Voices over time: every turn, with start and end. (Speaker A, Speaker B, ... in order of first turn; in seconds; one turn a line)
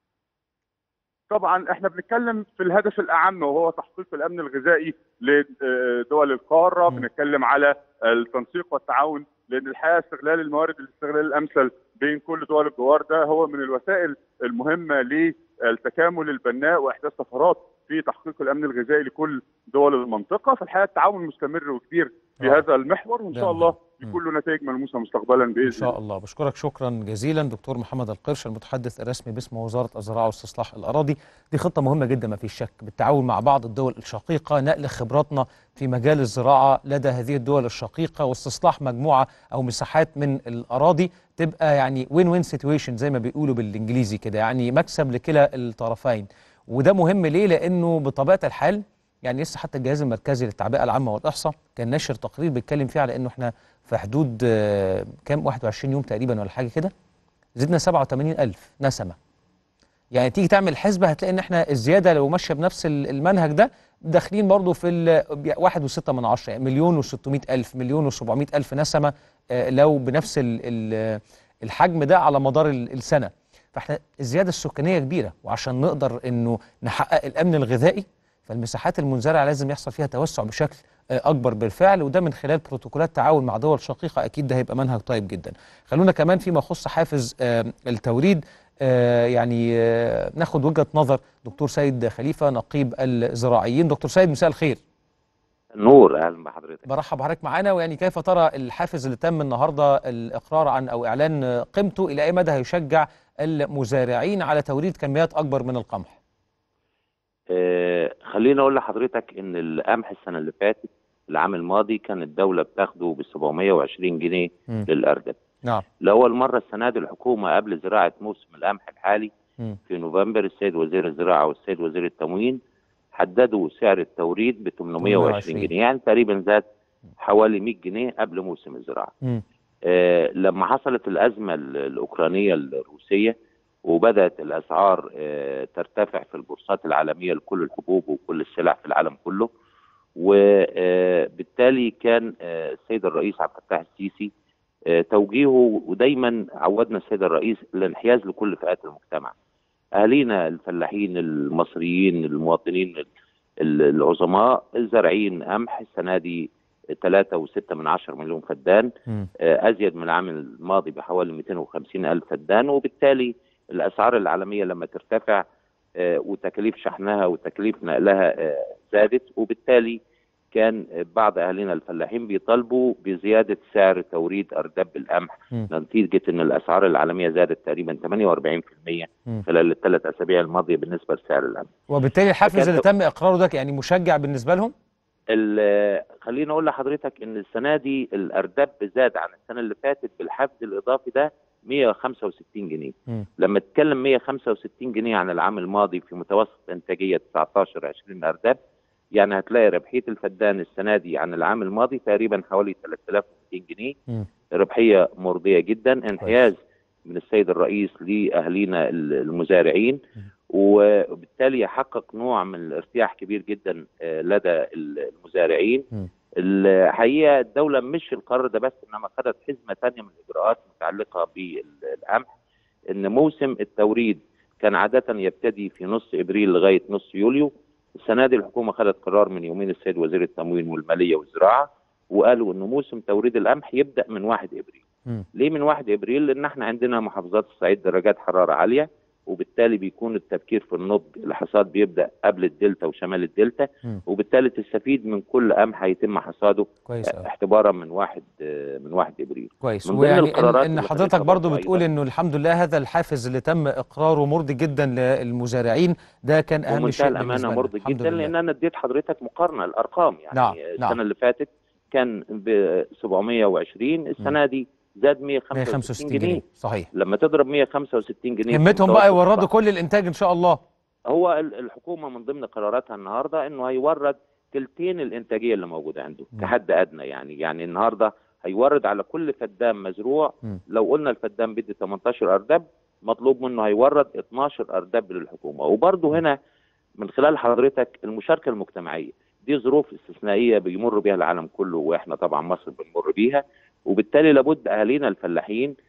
Speaker A: 1.3-25.9
Speaker B: 23.3-24.1
Speaker B: 25.7-56.9
Speaker B: 57.6-59.1
Speaker B: 60.1-94.8
Speaker C: 95.8-96.8
Speaker B: 96.9-106.2
Speaker C: 107.5-115.4
Speaker C: 116.0-119.3
Speaker C: 119.9-122.6
Speaker C: 123.2-126.6
Speaker B: 125.0-125.7
Speaker C: 127.2-129.1
Speaker C: 129.9-133.3
Speaker C: 133.9-139.5
Speaker C: 140.2-144.3
Speaker C: 144.9-149.3
Speaker C: 150.0-153.1
Speaker C: 153.6-158.9
Speaker C: 159.5-165.4
Speaker C: 166.0-170.0
Speaker C: 170.5-181.7
Speaker B: 181.9-184.7
Speaker C: 182.5-182.8
Speaker C: 185.3-198.6
Speaker C: 199.2-203.9
Speaker C: 204.6-206.6
Speaker C: 207.1-210.0
Speaker C: 210.5-215.8
Speaker C: 216.4-222.3
Speaker C: 222.9-234.8
Speaker C: 235.4-248.3
Speaker B: 246.9-247.2
Speaker C: 248.8-251.8
Speaker B: 249.6-258.3
Speaker C: 256.7-266.4
Speaker B: 260.3-261.0
Speaker B: 265.6-266.9
Speaker C: 267.0-269.5
Speaker B: 268.5-270.6
Speaker C: 271.1-286.4
Speaker C: 287.0-295.7